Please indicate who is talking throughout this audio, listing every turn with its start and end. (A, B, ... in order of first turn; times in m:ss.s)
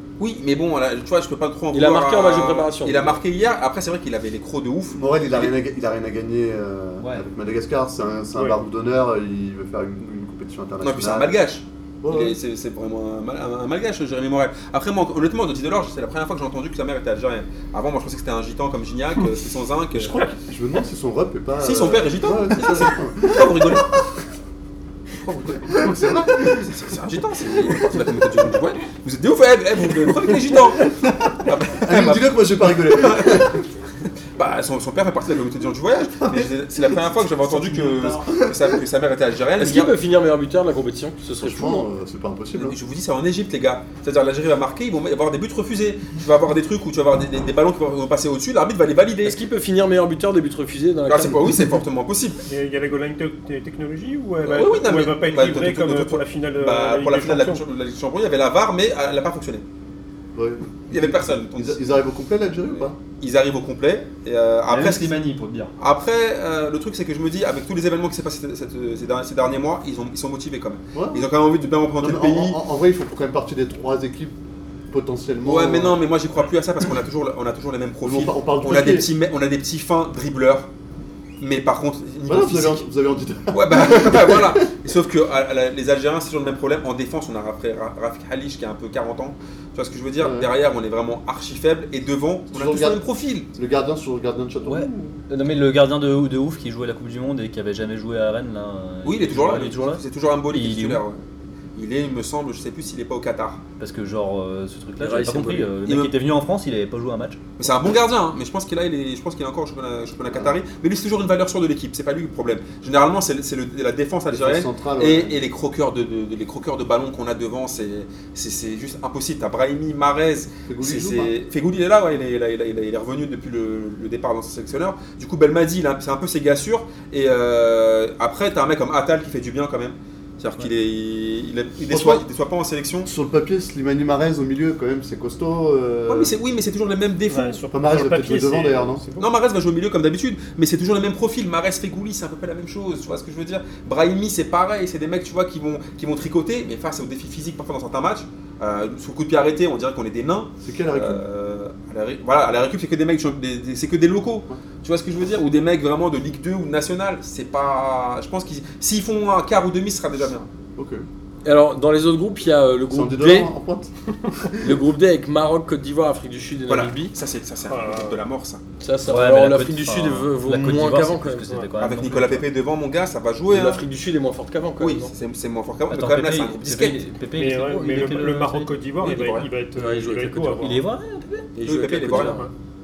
0:00.2-0:05.6 A
0:01.7-0:03.2 B
0:04.9-0:11.4 C
0:07.0-0:07.3 D
0:10.8-0:20.3 A
0:12.0-0:12.4 C
0:19.9-0:23.8 C
0:21.6-0:24.0 A
0:25.2-0:33.6 A
0:25.7-0:26.7 C
0:31.8-0:33.6 C
0:34.4-0:39.9 A
0:37.3-0:38.4 D
0:39.6-0:41.9 B
0:41.4-0:42.8 C
0:42.6-0:49.4 A
0:49.2-0:51.5 B
0:51.1-0:52.4 A
0:52.5-0:57.6 E
0:54.4-0:59.6 A
1:00.4-1:03.0 C
1:00.9-1:01.8 A
1:03.2-1:05.2 A
1:04.7-1:05.7 D
1:05.8-1:12.6 A
1:10.9-1:11.3 C
1:12.0-1:14.4 C
1:14.9-1:16.0 C
1:15.4-1:20.7 A
1:18.0-1:19.1 C
1:21.4-1:22.9 A
1:22.3-1:24.6 C
1:23.5-1:33.5 A
1:30.2-1:30.5 C
1:32.5-1:33.0 C
1:33.6-1:35.2 C
1:34.7-1:41.0 D
1:39.0-1:41.2 A
1:41.8-1:43.6 A
1:43.8-1:47.4 D
1:45.0-1:45.7 B
1:45.9-1:46.1 A
1:47.6-2:13.1 A
1:54.3-1:55.4 C
2:00.7-2:01.3 C
2:11.9-2:12.2 C
2:13.0-2:16.3 C
2:16.1-2:17.6 A
2:17.3-2:19.3 E
2:17.7-2:19.0 C
2:19.2-2:40.5 A
2:30.6-2:31.2 C
2:40.8-2:41.1 C
2:41.4-2:43.5 B
2:42.9-2:44.8 C
2:44.6-2:47.1 B
2:46.7-2:48.6 A
2:47.7-2:48.2 E
2:48.8-2:51.4 B
2:49.1-2:52.5 D
2:51.8-2:53.8 A
2:53.5-2:55.1 B
2:54.8-2:57.0 A
2:55.9-2:58.8 D
2:57.4-3:00.8 E
2:59.0-2:59.5 A
2:59.8-3:00.8 B
3:00.6-3:01.5 D
3:01.6-3:02.5 B
3:01.7-3:02.4 A
3:02.1-3:02.5 E